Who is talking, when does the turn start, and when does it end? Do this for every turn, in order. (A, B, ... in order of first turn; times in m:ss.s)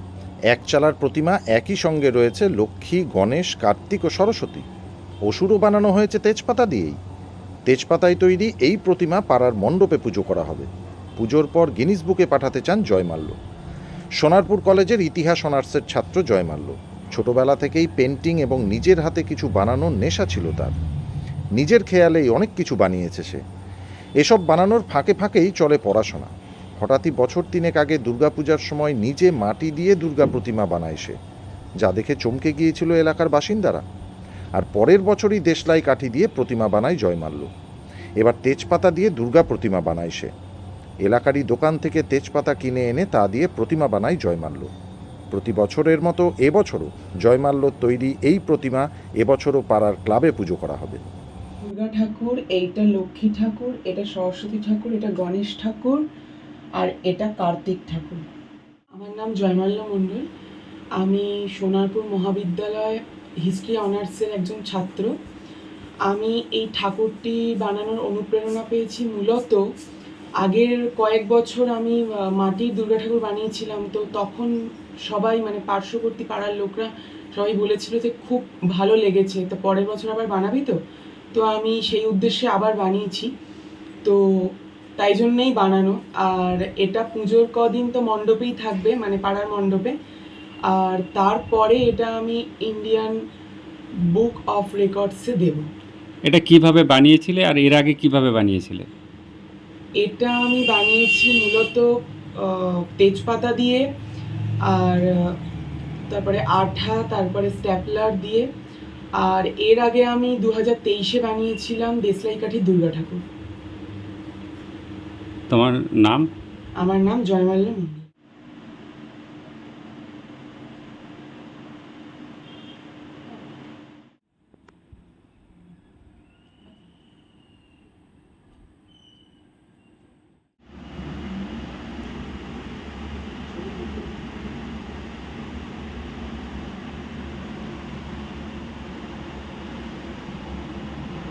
0:00.5-0:04.7 A
0:05.3-0:07.0 A
0:07.7-0:13.4 A
0:14.2-0:20.8 A
0:21.6-0:23.4 A
0:24.2-0:31.2 A
0:31.8-0:33.8 A
0:34.6-0:37.5 A
0:38.2-0:40.3 A
0:41.0-0:44.7 A
0:45.3-0:51.0 A
0:51.6-0:56.0 B
0:56.8-0:58.2 B
0:59.0-1:00.2 B
1:01.0-1:05.1 B
1:06.1-1:09.6 B
1:10.4-1:14.5 B
1:15.1-1:20.8 B
1:21.4-1:23.3 B
1:25.0-1:29.9 B
1:30.7-1:33.1 B
1:34.2-1:35.6 B
1:36.3-1:38.9 C
1:40.1-1:41.9 B
1:42.7-1:43.8 B
1:44.8-1:45.0 B
1:46.1-1:48.5 B
1:49.2-1:53.2 B
1:55.5-1:56.3 C
1:56.8-1:58.0 B